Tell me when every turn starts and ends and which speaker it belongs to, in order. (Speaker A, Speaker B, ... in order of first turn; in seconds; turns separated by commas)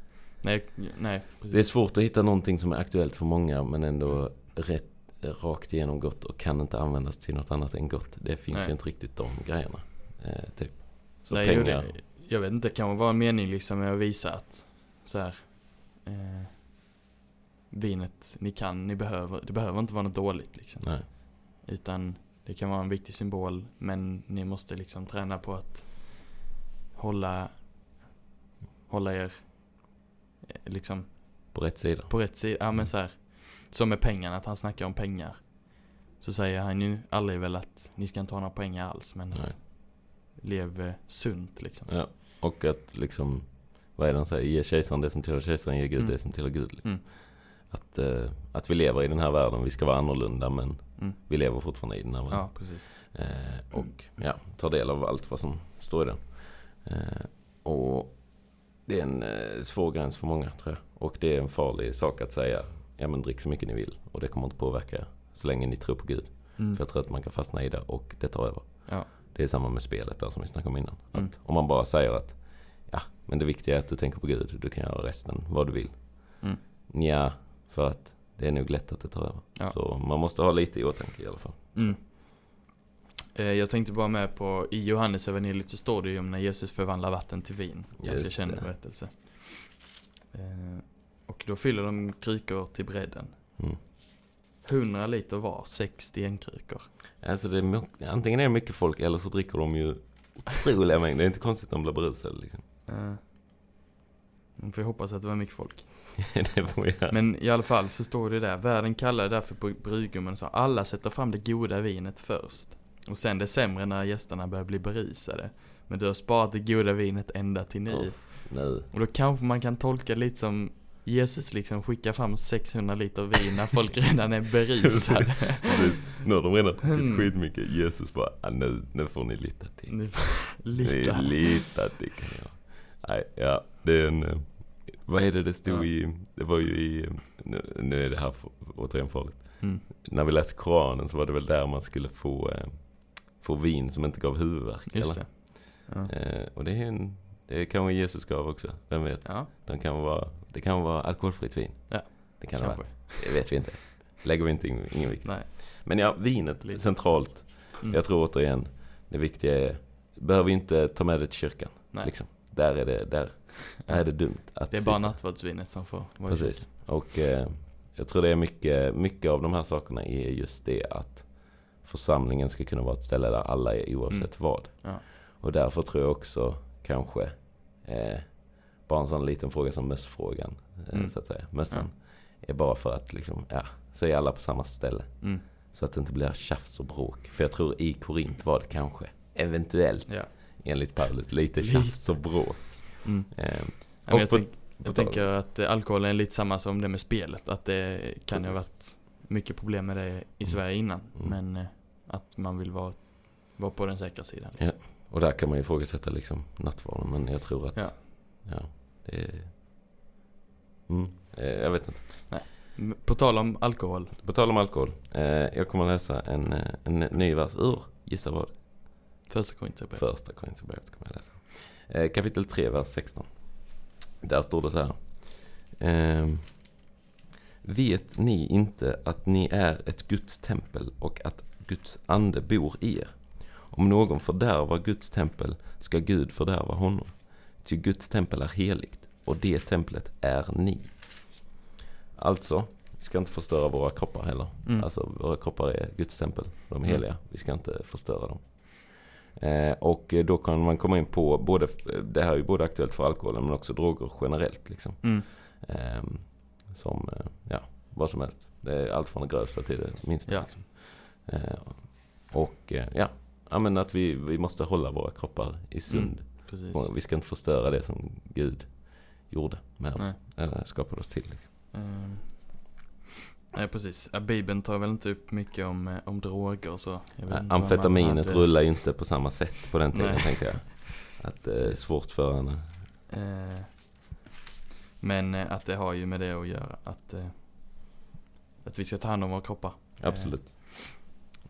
Speaker A: 0.4-1.7, Speaker B: 1.5-11.9, Speaker A: 11.3-17.0, Speaker A: 17.7-28.2, Speaker B: 20.8-21.1, Speaker A: 28.9-41.9, Speaker B: 31.5-32.2, Speaker B: 41.9-81.9, Speaker A: 46.0-47.0, Speaker A: 52.3-52.9, Speaker A: 81.7-82.6, Speaker A: 83.3-89.8, Speaker B: 88.0-88.7, Speaker A: 90.3-93.6, Speaker A: 94.6-96.9, Speaker B: 97.2-102.6, Speaker A: 102.8-103.2, Speaker A: 104.6-106.3, Speaker B: 106.2-107.2, Speaker A: 107.1-125.7, Speaker B: 117.9-118.9, Speaker B: 124.8-165.4, Speaker A: 126.9-127.3, Speaker A: 129.9-131.7, Speaker A: 144.9-146.1, Speaker A: 149.2-149.5, Speaker A: 151.9-153.6, Speaker A: 155.2-155.9, Speaker A: 156.6-158.0, Speaker A: 163.9-166.7, Speaker B: 166.3-195.3, Speaker A: 174.1-175.0, Speaker A: 180.9-181.9, Speaker A: 190.1-190.6, Speaker A: 191.6-204.7, Speaker B: 198.3-198.7, Speaker B: 200.4-201.4, Speaker B: 204.6-209.5, Speaker B: 210.9-212.3, Speaker A: 212.3-214.2, Speaker B: 214.2-218.6, Speaker A: 219.3-220.0, Speaker B: 219.9-226.6, Speaker B: 227.6-241.3, Speaker B: 242.1-271.5, Speaker A: 260.3-260.5, Speaker A: 265.9-266.9, Speaker A: 271.7-272.8, Speaker A: 273.5-278.5, Speaker B: 277.3-282.6, Speaker A: 279.9-281.9, Speaker A: 283.1-284.0, Speaker A: 285.0-288.1, Speaker A: 288.6-291.1, Speaker B: 290.0-290.8